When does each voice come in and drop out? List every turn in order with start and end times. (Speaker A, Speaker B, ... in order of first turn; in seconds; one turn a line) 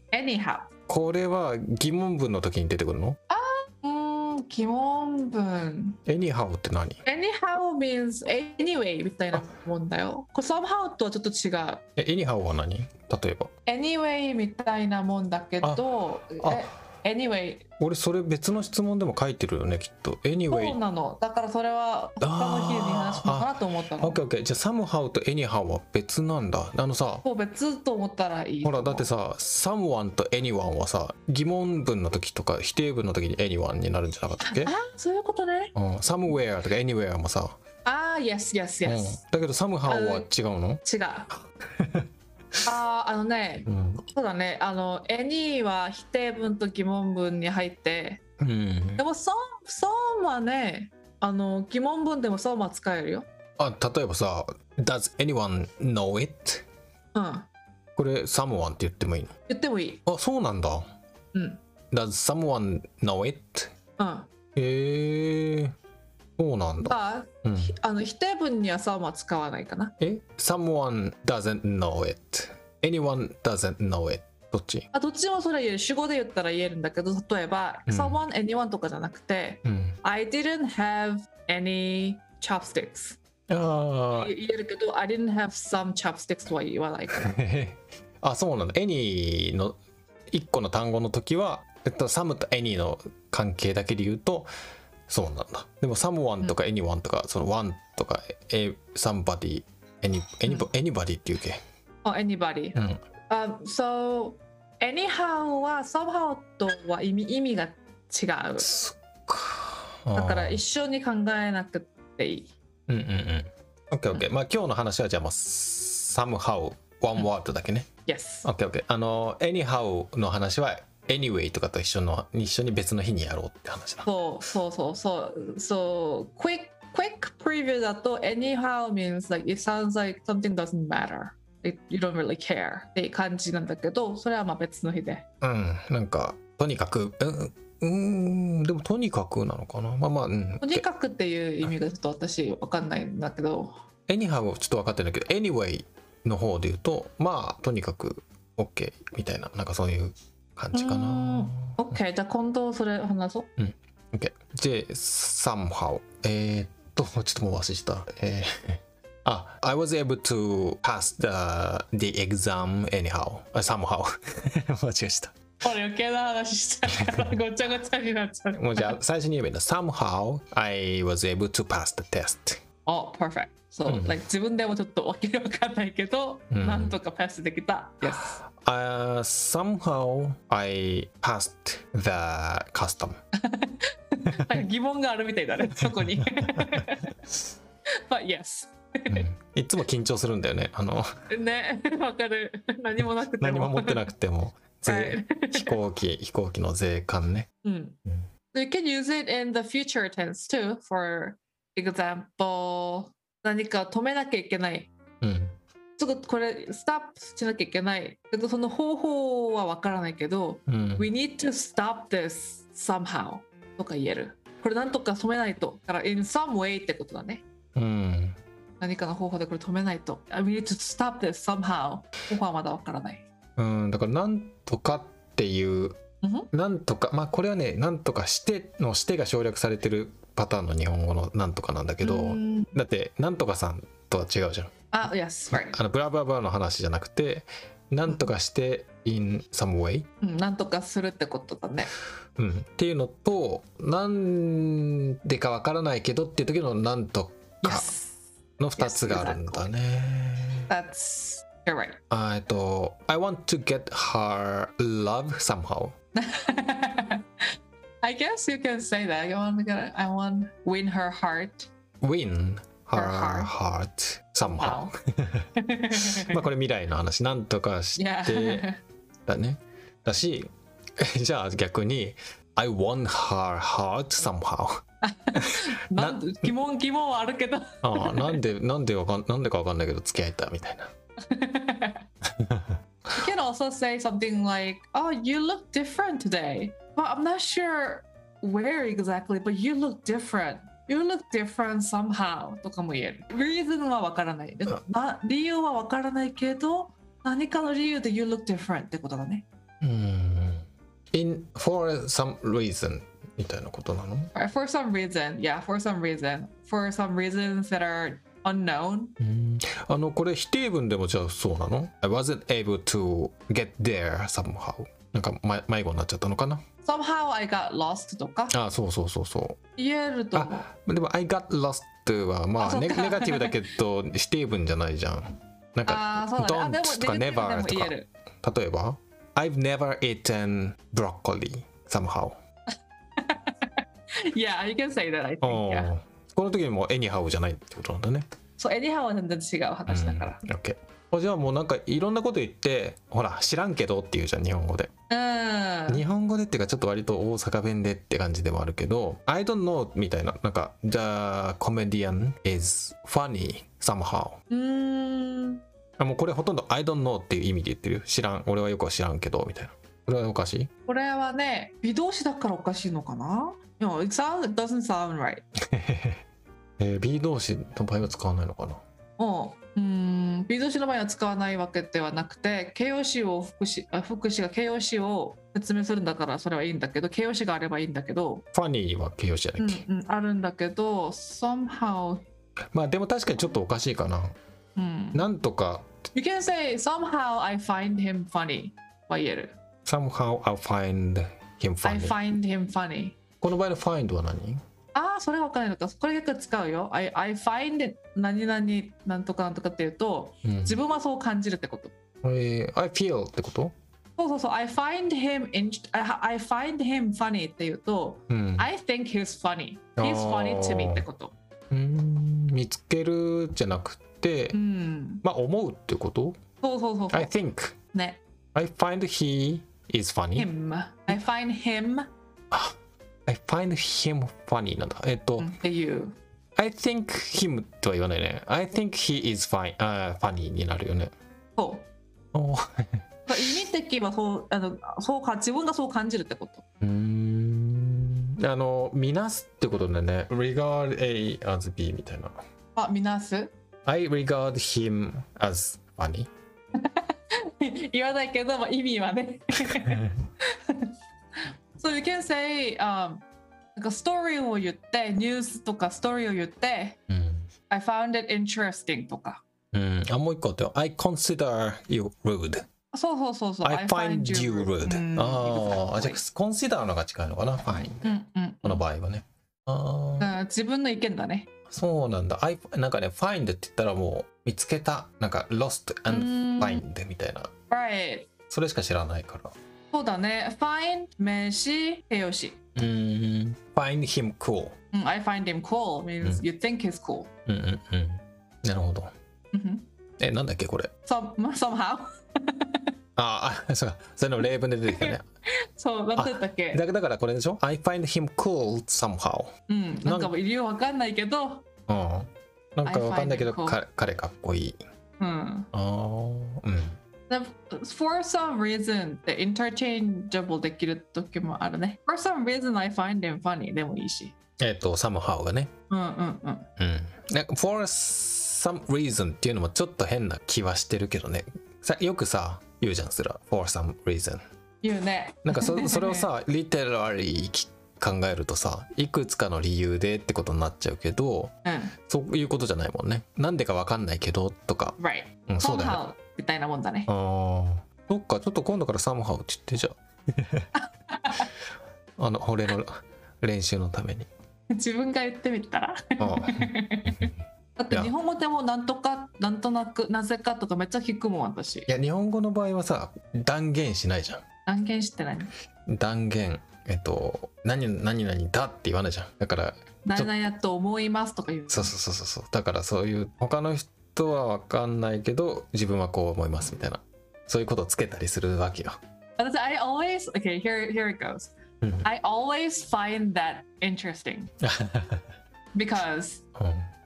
Speaker A: 0.1-0.7
Speaker B: 0.9-3.2
Speaker A: 3.3-6.0
Speaker B: 6.0-7.0
Speaker A: 7.0-11.8
Speaker B: 11.9-13.5
Speaker A: 13.7-17.6
Speaker B: 15.6-16.8
Speaker B: 17.8-20.8
Speaker A: 20.5-24.2
Speaker B: 22.2-27.2
Speaker A: 27.2-29.1
Speaker B: 28.6-34.7
Speaker A: 34.4-35.7
Speaker B: 35.7-37.6
Speaker A: 37.8-39.2
Speaker B: 38.8-40.8
Speaker A: 39.9-40.3
Speaker A: 40.8-41.3
Speaker B: 41.7-42.1
Speaker A: 42.6-48.2
Speaker B: 43.7-44.0
Speaker B: 48.4-49.0
Speaker A: 49.0-53.2
Speaker B: 53.6-56.6
Speaker A: 57.1-57.5
Speaker B: 58.0-59.3
Speaker A: 59.5-60.0
Speaker B: 60.0-60.8
Speaker A: 61.3-61.6
Speaker B: 61.9-63.7
Speaker A: 64.0-64.3
Speaker B: 64.5-65.7
Speaker B: 66.4-67.7
Speaker A: 66.8-69.9
Speaker B: 70.0-74.9
Speaker A: 74.9-83.2
Speaker B: 77.9-78.2
Speaker B: 79.6-80.0
Speaker B: 83.5-84.3
Speaker A: 84.1-87.3
Speaker B: 87.1-89.8
Speaker B: 90.3-94.5
Speaker B: 95.1-101.6
Speaker A: 102.0-108.7
Speaker B: 102.7-103.0
Speaker B: 108.6-110.6
Speaker A: 110.1-112.5
Speaker B: 112.9-117.9
Speaker A: 118.0-118.5
Speaker B: 118.4-124.1
Speaker A: 124.0-135.2
Speaker B: 135.4-140.8
Speaker A: 140.6-143.7
Speaker B: 144.1-151.8
Speaker A: 150.7-153.5
Speaker B: 153.6-165.4
Speaker A: 165.6-169.0
Speaker B: 168.5-172.6
Speaker A: 172.8-178.4
Speaker B: 173.8-174.2
Speaker B: 176.5-177.0
Speaker B: 178.0-183.2
Speaker A: 183.4-187.1
Speaker B: 186.4-186.8
Speaker A: 188.1-189.2
Speaker B: 189.1-191.1
Speaker A: 191.3-194.0
Speaker B: 193.4-197.5
Speaker A: 194.8-195.8
Speaker A: 197.6-198.0
Speaker A: 198.5-204.9
Speaker B: 205.2-205.5
Speaker A: 206.0-217.4
Speaker B: 210.7-211.1
Speaker B: 217.7-218.4
Speaker A: 218.8-223.2
Speaker B: 223.6-226.0
Speaker A: 226.2-226.5
Speaker B: 226.5-234.7
Speaker A: 232.0-232.8
Speaker A: 234.9-235.8
Speaker B: 235.6-240.1
Speaker A: 240.2-241.9
Speaker B: 242.4-247.9
Speaker A: 247.6-248.1
Speaker B: 248.6-250.7
Speaker A: 248.8-249.7
Speaker A: 250.7-252.0
Speaker B: 252.1-255.9
Speaker A: 256.1-257.4
Speaker A: 258.0-261.7
Speaker B: 262.0-268.6
Speaker A: 262.9-263.5
Speaker A: 264.4-264.9
Speaker A: 265.6-266.4
Speaker A: 267.9-268.8
Speaker B: 269.2-274.8
Speaker A: 275.0-278.4
Speaker B: 275.3-276.5
Speaker B: 277.8-280.9
Speaker A: 281.2-282.0
Speaker B: 282.4-282.7
Speaker A: 283.1-299.4
Speaker B: 299.8-304.3
Speaker A: 304.3-309.1
Speaker B: 309.2-316.6
Speaker A: 316.8-318.5
Speaker B: 318.5-319.6
Speaker A: 319.8-320.7
Speaker B: 320.3-332.4
Speaker A: 322.6-323.6
Speaker A: 325.9-328.1
Speaker A: 333.2-335.9
Speaker B: 335.4-338.2
Speaker A: 338.6-340.4
Speaker B: 339.9-344.9
Speaker A: 345.1-346.0
Speaker B: 345.9-354.4
Speaker A: 354.5-355.6
Speaker B: 356.0-360.7
Speaker A: 360.9-365.4
Speaker B: 365.7-366.2
Speaker B: 366.8-368.8
Speaker A: 369.2-378.4
Speaker B: 378.5-379.8
Speaker A: 379.6-382.2
Speaker B: 382.7-384.4
Speaker A: 384.8-385.3
Speaker B: 385.1-385.9
Speaker A: 386.1-389.6
Speaker B: 389.9-392.2
Speaker A: 391.8-393.1
Speaker B: 393.4-394.6
Speaker A: 394.9-401.9
Speaker B: 400.4-400.8
Speaker B: 402.2-403.7
Speaker A: 404.2-411.3
Speaker B: 408.3-408.7
Speaker B: 410.0-411.0
Speaker B: 411.7-414.6
Speaker A: 414.5-415.2
Speaker B: 415.2-416.4
Speaker A: 416.6-417.3
Speaker B: 417.1-417.7
Speaker A: 417.9-418.2
Speaker B: 418.5-420.5
Speaker A: 420.4-422.1
Speaker B: 422.5-425.5
Speaker A: 425.4-426.1
Speaker B: 426.6-431.1
Speaker A: 431.6-431.9
Speaker B: 432.3-433.0
Speaker A: 433.3-436.6
Speaker B: 436.8-442.3
Speaker A: 442.8-443.5
Speaker B: 443.9-446.3
Speaker A: 446.8-450.9
Speaker B: 449.9-450.1
Speaker A: 451.8-453.2
Speaker A: 453.8-457.0
Speaker B: 457.1-457.5
Speaker A: 457.7-459.4
Speaker B: 459.7-462.7
Speaker A: 462.9-466.2
Speaker B: 463.6-468.1
Speaker A: 468.0-468.8
Speaker B: 468.6-470.3
Speaker A: 470.2-471.5
Speaker B: 471.7-477.5
Speaker A: 476.1-476.8
Speaker A: 477.7-478.3
Speaker B: 478.5-479.5
Speaker A: 479.9-482.6
Speaker B: 482.7-484.8
Speaker A: 484.9-487.3
Speaker B: 487.5-489.1
Speaker A: 489.5-489.8
Speaker B: 490.2-490.9
Speaker A: 491.1-492.9
Speaker B: 493.2-495.2
Speaker A: 494.9-496.8
Speaker B: 496.1-499.5
Speaker A: 499.7-501.6
Speaker B: 500.0-500.3
Speaker B: 501.9-504.8
Speaker A: 502.8-503.8
Speaker A: 505.2-505.7
Speaker B: 505.7-507.0
Speaker A: 507.3-514.4
Speaker B: 514.6-515.7
Speaker A: 515.9-516.7
Speaker B: 516.8-524.4
Speaker A: 524.8-526.3
Speaker B: 525.5-531.5
Speaker A: 531.6-531.9
Speaker B: 532.1-536.0
Speaker A: 535.0-537.1
Speaker B: 537.1-540.7
Speaker A: 540.7-541.5
Speaker B: 542.2-544.3
Speaker A: 544.7-547.2
Speaker B: 546.2-547.3
Speaker A: 547.8-551.9
Speaker B: 551.9-554.4
Speaker A: 554.7-555.5
Speaker B: 555.9-560.3
Speaker A: 560.0-561.9
Speaker B: 561.7-569.0
Speaker A: 569.4-574.5
Speaker B: 571.8-572.1
Speaker B: 574.6-575.2
Speaker A: 575.7-576.4
Speaker B: 576.5-576.9